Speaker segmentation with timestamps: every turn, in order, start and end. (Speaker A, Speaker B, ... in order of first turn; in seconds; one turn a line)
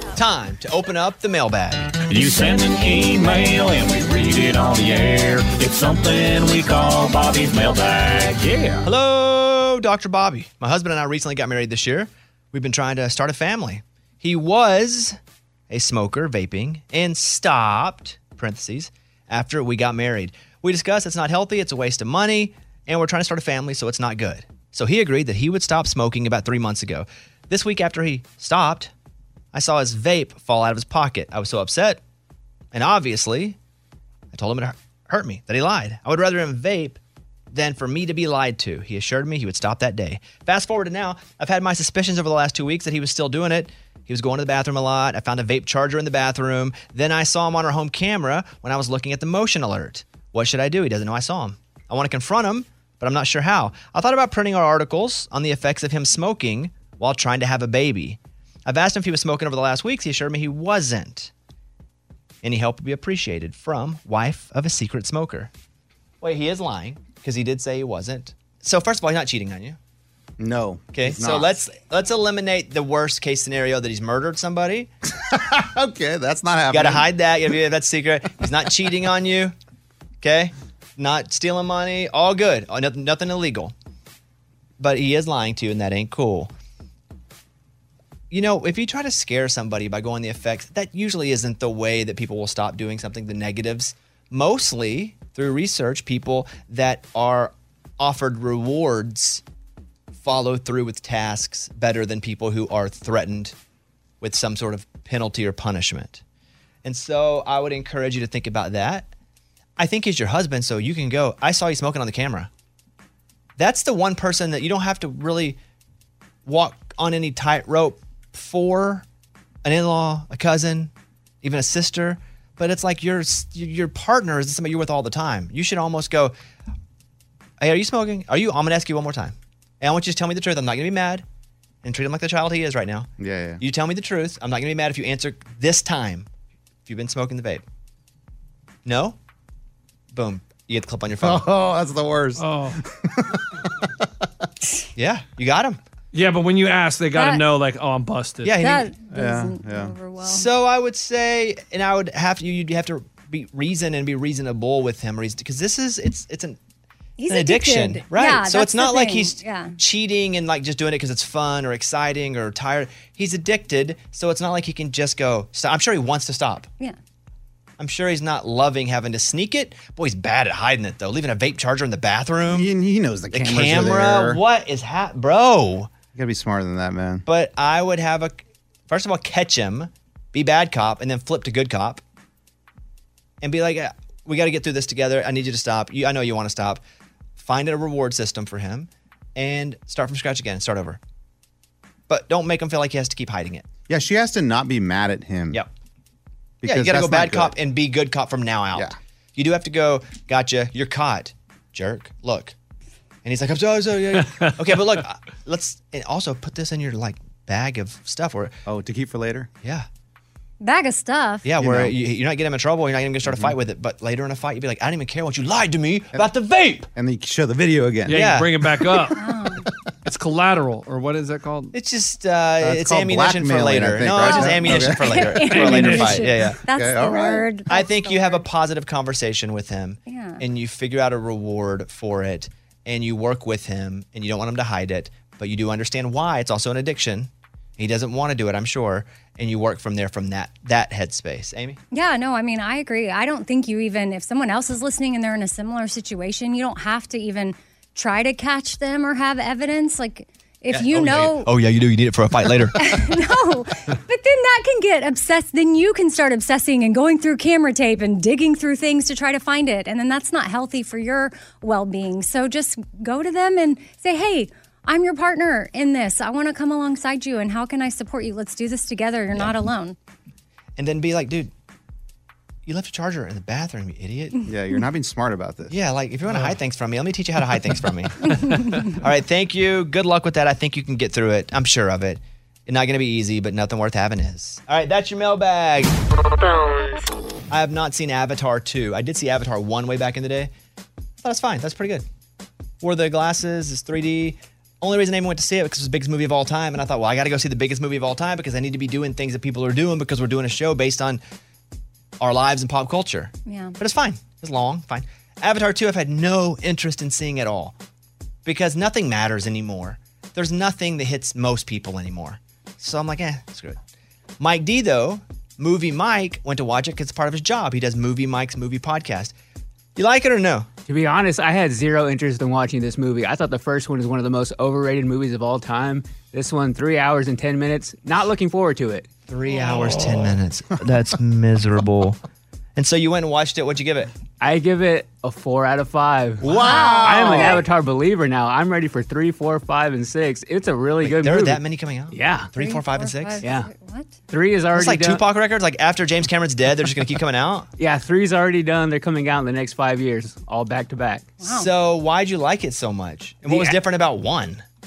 Speaker A: 0.1-2.0
Speaker B: 2.1-8.8
Speaker A: 8.8-15.2
Speaker A: 15.7-28.9
Speaker A: 29.5-32.0
Speaker A: 32.7-33.6
Speaker A: 34.3-37.0
Speaker A: 37.5-61.3
Speaker A: 62.4-65.5
Speaker A: 66.2-69.8
Speaker C: 70.4-71.5
Speaker A: 70.9-74.9
Speaker C: 75.1-77.1
Speaker A: 76.7-79.5
Speaker A: 80.2-83.7
Speaker A: 84.8-86.5
Speaker A: 88.3-99.4
Speaker A: 100.2-103.5
Speaker A: 104.2-106.2
Speaker A: 106.8-109.1
Speaker A: 109.8-112.5
Speaker A: 113.6-115.6
Speaker A: 116.4-119.0
Speaker A: 119.6-126.3
Speaker A: 127.6-131.2
Speaker A: 131.8-133.1
Speaker C: 133.2-133.6
Speaker A: 133.6-136.3
Speaker A: 136.8-137.6
Speaker A: 138.8-139.2
Speaker A: 140.1-141.5
Speaker C: 141.2-144.1
Speaker D: 142.4-142.8
Speaker A: 144.9-145.8
Speaker D: 146.1-148.5
Speaker E: 147.1-147.4
Speaker A: 148.4-148.9
Speaker E: 148.6-150.4
Speaker C: 149.1-149.9
Speaker A: 150.2-156.6
Speaker E: 157.2-159.8
Speaker A: 157.3-166.7
Speaker A: 167.8-172.7
Speaker C: 172.5-174.4
Speaker A: 173.3-175.9
Speaker C: 176.1-177.2
Speaker A: 177.2-182.0
Speaker A: 183.4-186.8
Speaker A: 187.4-191.0
Speaker A: 192.1-193.7
Speaker C: 193.9-195.6
Speaker C: 196.6-197.6
Speaker A: 196.6-202.5
Speaker A: 203.2-208.6
Speaker C: 208.7-209.5
Speaker E: 210.6-211.4
Speaker A: 211.4-216.9
Speaker C: 211.6-211.9
Speaker C: 213.2-213.6
Speaker C: 216.9-218.4
Speaker D: 218.1-219.2
Speaker A: 218.1-218.5
Speaker E: 219.1-219.7
Speaker D: 220.0-221.7
Speaker A: 221.7-226.6
Speaker C: 222.6-225.5
Speaker E: 224.2-228.4
Speaker D: 225.5-226.3
Speaker C: 226.7-227.5
Speaker A: 227.7-241.8
Speaker E: 230.1-230.4
Speaker E: 241.9-251.5
Speaker A: 250.7-253.0
Speaker E: 252.8-269.9
Speaker A: 270.8-271.5
Speaker A: 272.6-274.4
Speaker C: 274.4-275.7
Speaker A: 275.7-285.9
Speaker E: 278.4-278.8
Speaker A: 287.5-290.5
Speaker A: 291.2-292.1
Speaker A: 292.8-301.2
Speaker A: 302.2-307.7
Speaker E: 303.4-303.8
Speaker A: 308.4-313.8
Speaker A: 314.4-319.3
Speaker A: 319.9-320.7
Speaker F: 320.9-329.1
Speaker A: 329.3-332.2
Speaker A: 332.8-334.1
Speaker F: 334.4-342.5
Speaker C: 336.4-337.6
Speaker E: 336.5-337.6
Speaker A: 341.0-343.4
Speaker E: 342.6-344.1
Speaker F: 343.4-343.7
Speaker F: 344.3-345.2
Speaker A: 344.7-347.7
Speaker F: 347.8-351.4
Speaker E: 351.4-351.7
Speaker A: 351.4-354.6
Speaker F: 353.4-353.8